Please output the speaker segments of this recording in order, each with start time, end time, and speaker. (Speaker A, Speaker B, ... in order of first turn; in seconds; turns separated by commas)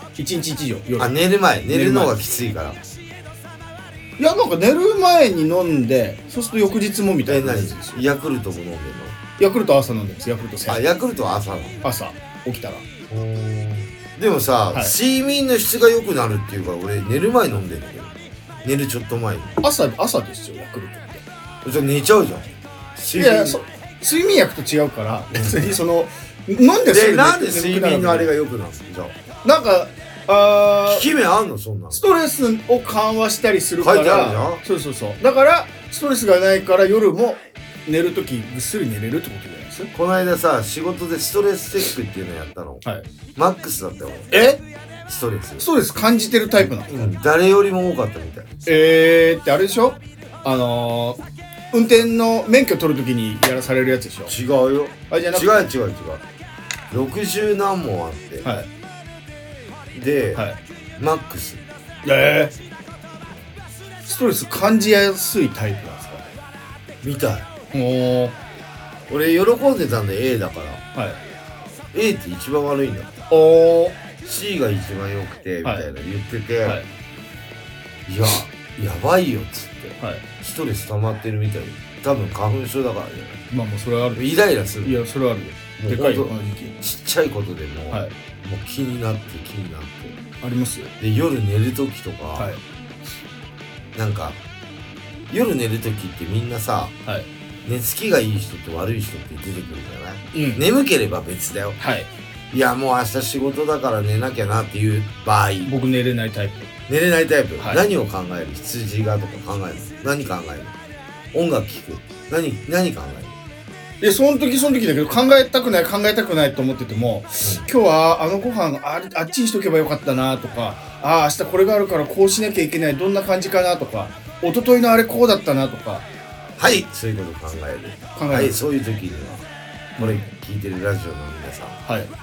Speaker A: 0.2-1.1, Speaker B: 1.0-2.8, Speaker A: 1.7-2.1, Speaker A: 4.2-8.0, Speaker B: 7.3-9.2, Speaker A: 9.4-10.8, Speaker B: 10.7-11.8, Speaker A: 11.8-12.8, Speaker B: 13.1-19.6, Speaker A: 19.6-21.2, Speaker B: 21.6-23.6, Speaker A: 23.1-28.3, Speaker B: 25.3-25.7, Speaker B: 26.9-29.2, Speaker A: 29.4-31.1, Speaker B: 30.9-32.0, Speaker A: 31.9-39.9, Speaker B: 33.8-34.6, Speaker B: 39.9-42.8, Speaker B: 43.4-44.3, Speaker A: 44.3-44.6, Speaker B: 45.1-45.6, Speaker A: 45.6-47.1, Speaker B: 46.6-48.5, Speaker A: 48.7-51.2, Speaker A: 51.7-54.3, Speaker B: 54.3-56.2, Speaker A: 55.1-55.7, Speaker B: 56.9-58.5, Speaker B: 59.9-60.5, Speaker B: 61.0-61.6, Speaker A: 62.0-62.5, Speaker A: 64.0-66.3, Speaker B: 67.0-67.5, Speaker A: 67.7-68.4, Speaker B: 69.1-70.8, Speaker B: 71.9-73.2, Speaker A: 73.3-74.0, Speaker B: 74.2-76.8, Speaker B: 78.1-83.4, Speaker A: 83.5-86.8, Speaker B: 84.2-85.0, Speaker B: 85.8-90.2, Speaker A: 90.4-90.9, Speaker B: 91.0-92.5, Speaker A: 92.4-92.6, Speaker B: 94.0-94.4, Speaker B: 95.3-96.9, Speaker B: 97.7-101.8, Speaker A: 100.3-100.6, Speaker A: 101.8-102.1, Speaker B: 102.5-105.7, Speaker A: 105.7-106.7, Speaker B: 106.9-110.8, Speaker B: 111.3-113.3, Speaker A: 114.0-126.1, Speaker B: 126.6-129.5, Speaker A: 128.2-128.6, Speaker A: 130.0-130.3, Speaker B: 130.0-131.8, Speaker A: 131.9-132.1